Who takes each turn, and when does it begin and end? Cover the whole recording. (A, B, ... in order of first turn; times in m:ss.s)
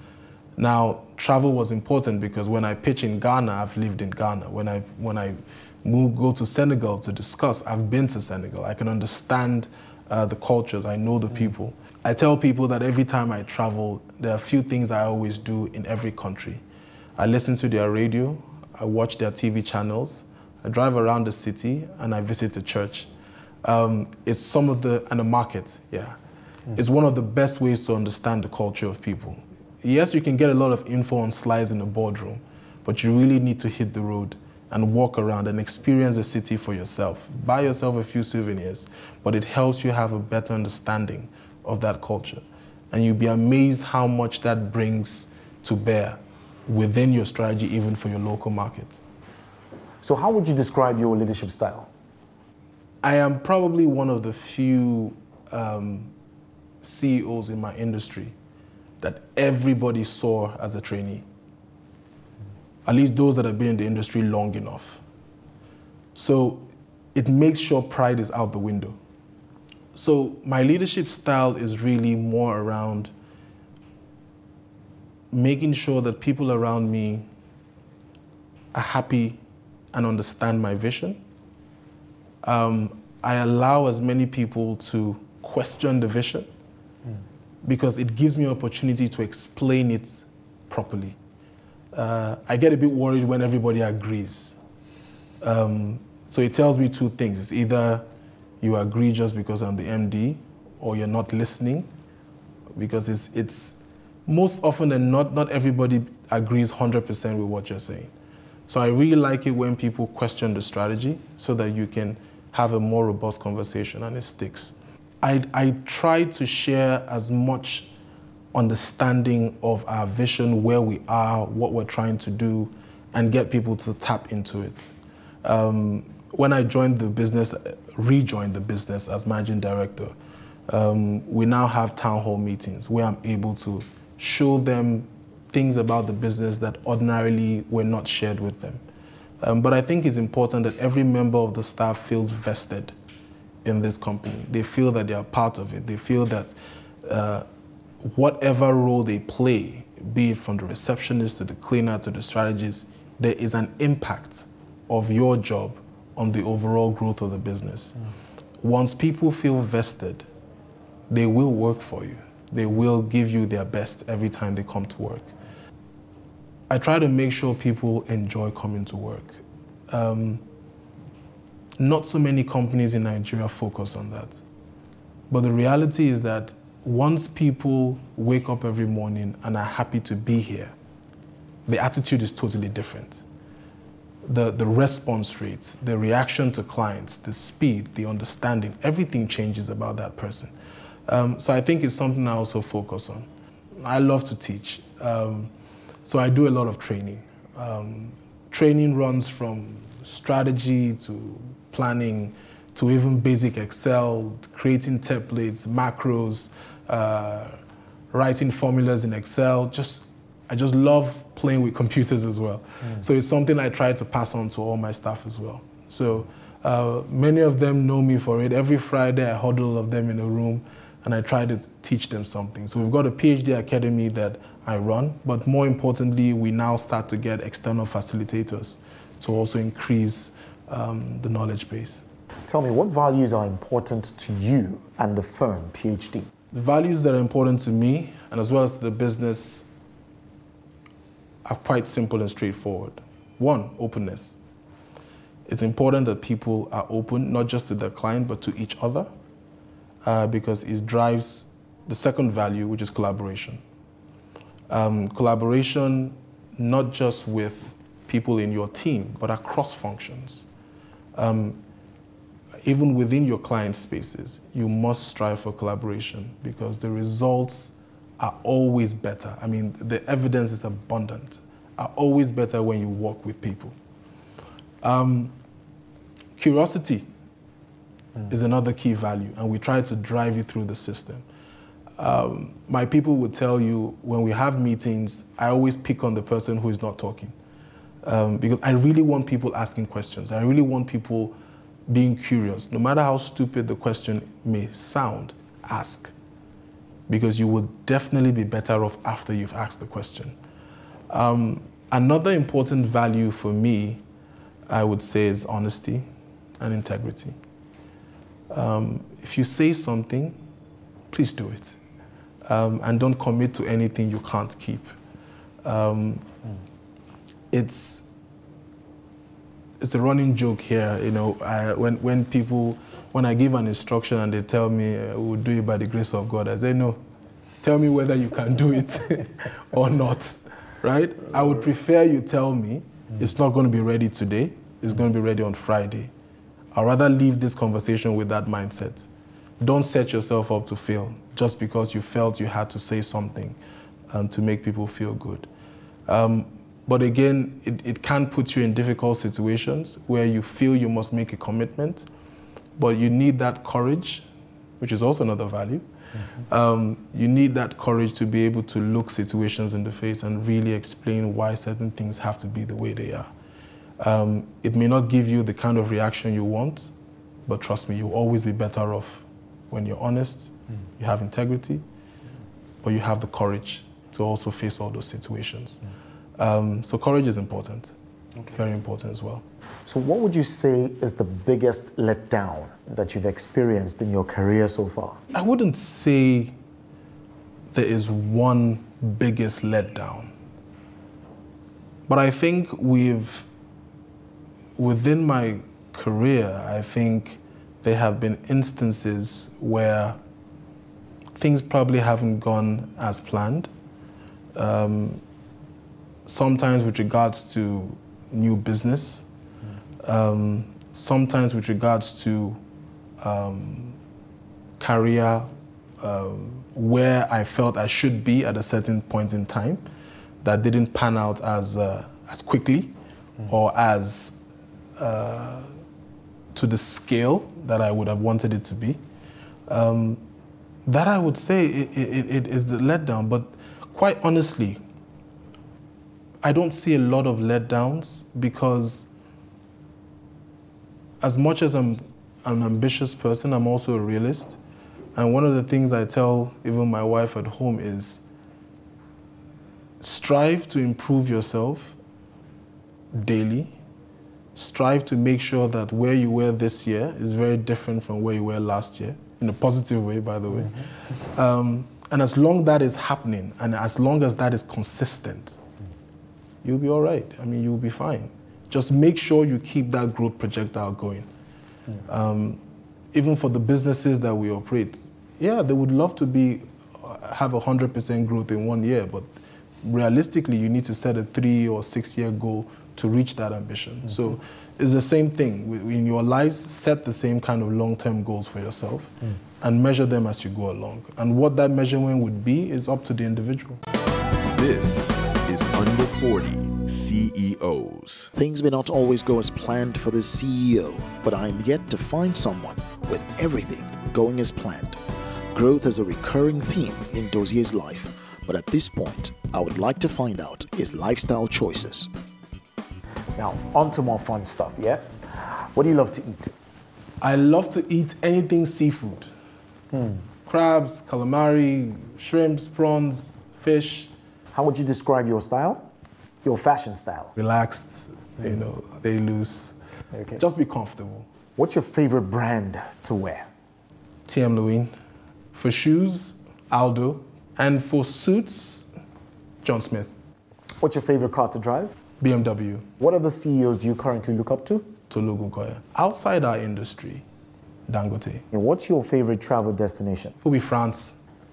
0:00.6-0:16.6 A
0:17.2-0:23.1 A
0:23.6-0:26.2 A
0:26.7-0:49.0 A
0:50.0-0:51.9 B
0:53.0-0:56.1 A
0:56.8-0:58.3 A
0:59.0-1:01.2 A
1:02.8-1:05.0 A
1:06.1-1:09.0 A
1:09.9-1:13.1 A
1:15.3-1:17.3 A
1:18.7-1:19.4 A
1:19.9-1:21.2 A
1:22.4-1:26.5 A
1:27.6-1:31.2 A
1:31.9-1:34.6 A
1:35.4-1:38.0 A
1:38.6-1:41.9 A
1:42.7-1:48.1 A
1:48.7-1:57.9 A
1:58.5-2:04.9 A
2:05.4-2:10.1 A
2:10.7-2:18.8 A
2:19.4-2:22.9 A
2:23.6-2:27.4 A
2:28.0-2:37.9 A
2:38.6-2:40.3 A
2:41.1-2:45.3 A
2:46.7-2:50.4 A
2:51.8-2:54.4 A
2:55.3-3:00.7 A
3:01.7-3:03.2 A
3:04.2-3:10.5 A
3:11.1-3:15.5 A
3:16.0-3:27.6 A
3:28.1-3:52.0 A
3:52.5-3:56.3 B
3:56.5-3:59.7 A
4:01.4-4:04.4 A
4:05.5-4:09.1 A
4:10.0-4:13.6 A
4:14.7-4:20.4 A
4:21.1-4:21.6 A
4:22.6-4:33.7 A
4:34.8-4:35.3 A
4:36.4-4:37.1 A
4:38.3-4:41.2 A
4:42.0-4:47.3 A
4:48.0-4:51.3 A
4:51.9-4:56.1 A
4:57.1-5:00.3 A
5:01.1-5:04.0 A
5:04.7-5:06.0 A
5:06.6-5:07.3 A
5:08.5-5:10.4 A
5:11.1-5:11.8 A
5:12.4-5:14.9 A
5:15.6-5:16.3 A
5:17.5-5:18.1 A
5:19.8-5:27.0 A
5:27.6-5:36.1 A
5:36.7-5:39.1 A
5:39.6-5:43.6 A
5:44.1-5:45.5 A
5:46.1-5:52.0 A
5:52.8-5:54.2 A
5:54.8-5:55.8 A
5:56.4-6:03.3 A
6:04.0-6:06.9 A
6:07.5-6:11.8 A
6:12.8-6:15.8 A
6:16.4-6:17.9 A
6:18.5-6:19.4 A
6:19.8-6:25.2 B
6:25.3-6:26.5 A
6:27.7-6:30.3 A
6:32.1-6:33.5 A
6:34.8-6:40.2 A
6:41.4-6:43.7 A
6:44.5-6:45.2 A
6:46.2-6:49.2 A
6:50.0-6:52.6 A
6:53.2-6:54.0 A
6:54.8-6:55.5 A
6:56.0-6:59.8 A
7:00.4-7:04.4 A
7:05.0-7:05.7 A
7:06.5-7:09.0 A
7:09.7-7:10.2 A
7:10.8-7:14.8 A
7:16.4-7:19.1 A
7:21.2-7:24.6 A
7:25.1-7:28.2 A
7:30.0-7:32.0 A
7:33.1-7:33.7 A
7:34.5-7:45.6 A
7:46.6-7:51.3 A
7:52.0-7:52.6 A
7:53.1-7:59.3 A
7:59.8-8:13.8 A
8:14.5-8:18.3 C
8:18.3-8:25.0 D
8:25.5-8:32.1 D
8:33.4-8:36.5 B
8:37.2-8:39.3 A
8:39.9-8:40.2 B
8:40.4-8:44.1 A
8:44.5-8:45.8 B
8:46.4-8:47.3 B
8:47.4-8:49.8 A
8:50.1-8:50.4 B
8:50.3-8:51.3 A
8:51.6-8:53.5 B
8:54.3-8:54.9 A
8:55.5-8:58.9 A
8:59.6-9:00.1 A
9:00.8-9:01.9 B
9:02.2-9:02.9 A
9:03.0-9:04.9 B
9:05.1-9:07.2 A
9:07.9-9:08.4 A
9:08.5-9:10.3 B
9:10.4-9:11.2 A